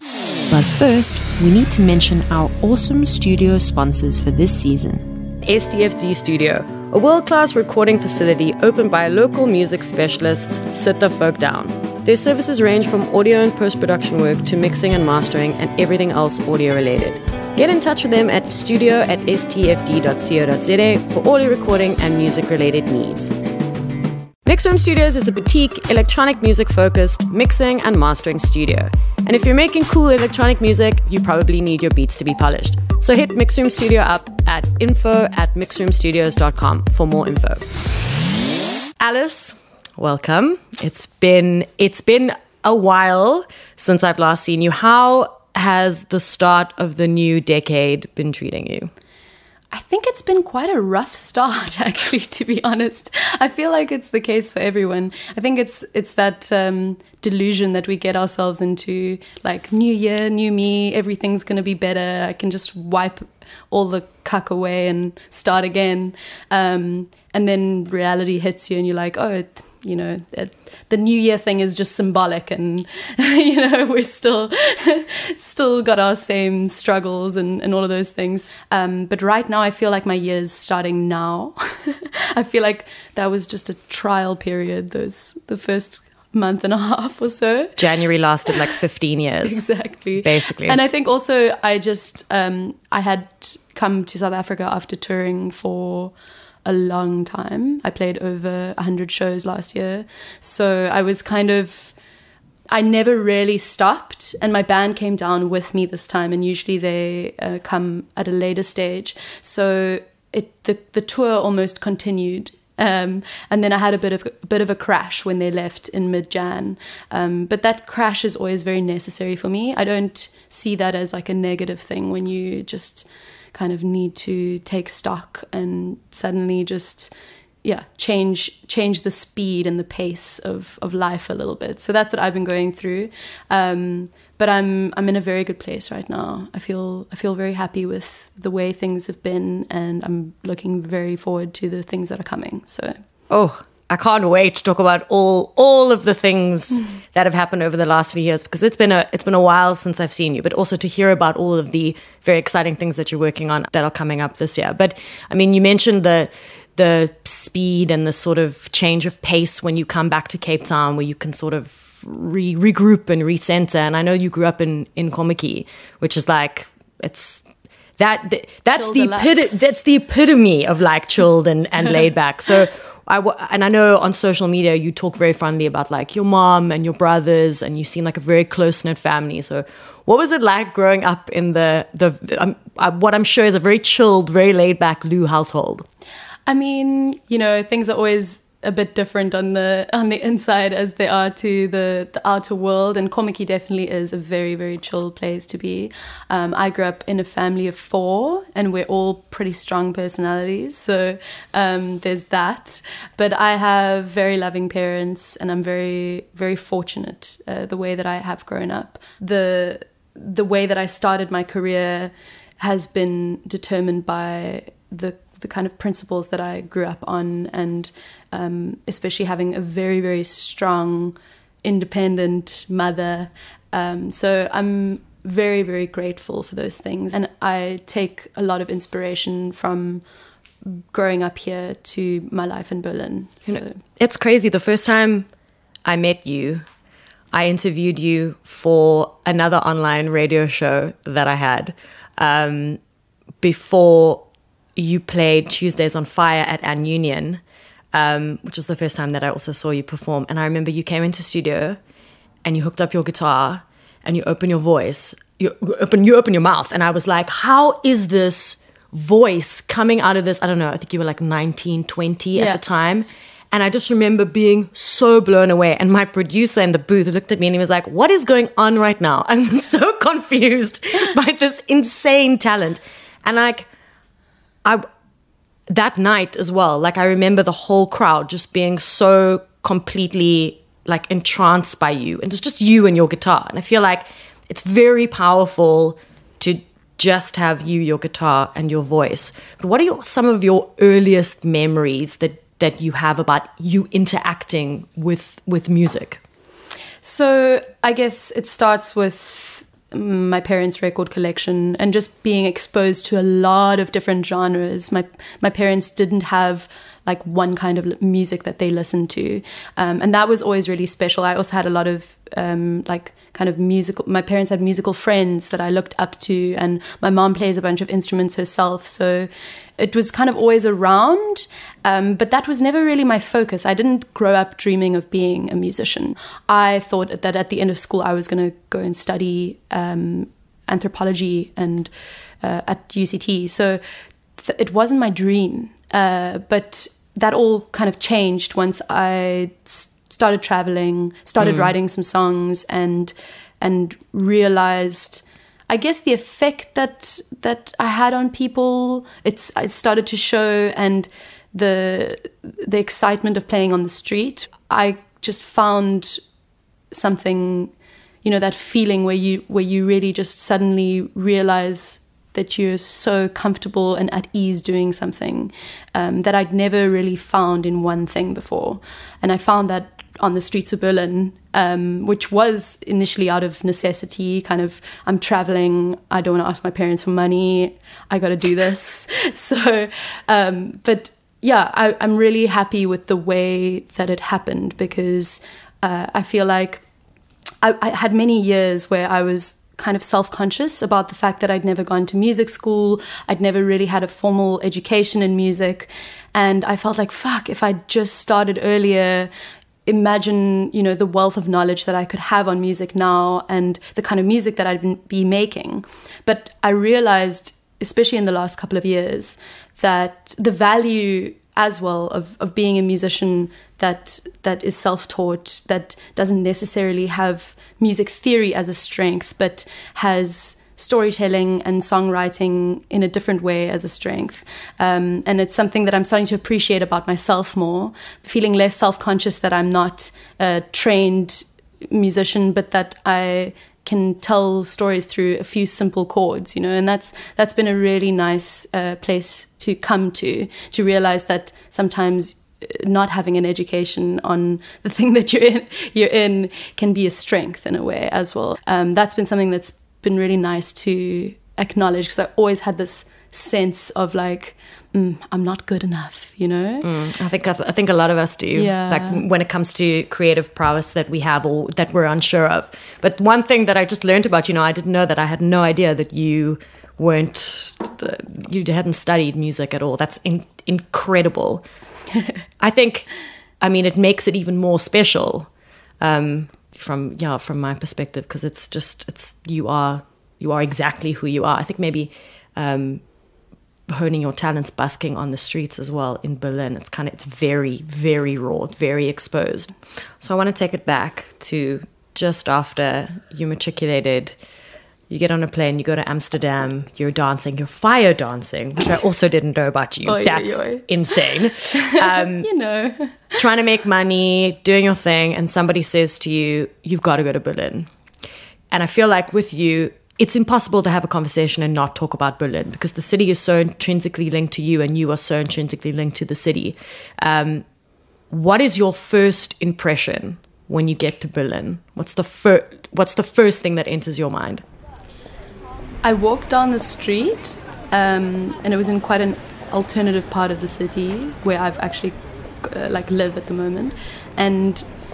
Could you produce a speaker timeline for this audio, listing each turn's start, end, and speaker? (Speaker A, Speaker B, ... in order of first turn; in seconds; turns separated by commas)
Speaker A: 0.5-5.1, Speaker B: 5.4-23.3, Speaker B: 24.4-37.8, Speaker B: 39.0-48.9, Speaker C: 49.7-87.8, Speaker B: 87.8-89.6, Speaker C: 89.4-96.1, Speaker B: 90.2-90.8, Speaker C: 96.6-101.9, Speaker C: 102.7-127.1, Speaker C: 127.6-143.0, Speaker B: 143.3-167.4, Speaker B: 168.0-185.8, Speaker C: 168.7-169.7, Speaker C: 186.5-230.0, Speaker C: 230.7-233.8, Speaker B: 233.5-235.3, Speaker B: 235.8-236.6, Speaker B: 237.3-242.8, Speaker B: 243.4-244.2, Speaker B: 244.8-247.4, Speaker B: 247.9-251.8, Speaker B: 252.4-273.7, Speaker C: 262.3-262.6, Speaker B: 275.7-296.2, Speaker C: 297.0-319.3, Speaker C: 319.8-331.9, Speaker C: 332.4-333.8, Speaker C: 334.4-356.2, Speaker B: 341.4-341.7, Speaker C: 356.9-357.7, Speaker C: 358.2-386.8, Speaker C: 387.6-399.3, Speaker C: 399.9-456.9, Speaker B: 456.8-471.6, Speaker C: 458.5-459.2, Speaker B: 472.6-473.1, Speaker B: 473.6-475.5, Speaker B: 476.0-483.0, Speaker B: 483.9-494.4, Speaker B: 495.1-502.5, Speaker C: 500.1-501.1, Speaker C: 501.7-503.2, Speaker B: 503.4-507.9, Speaker B: 508.7-517.6, Speaker B: 518.3-524.6, Speaker C: 526.0-534.8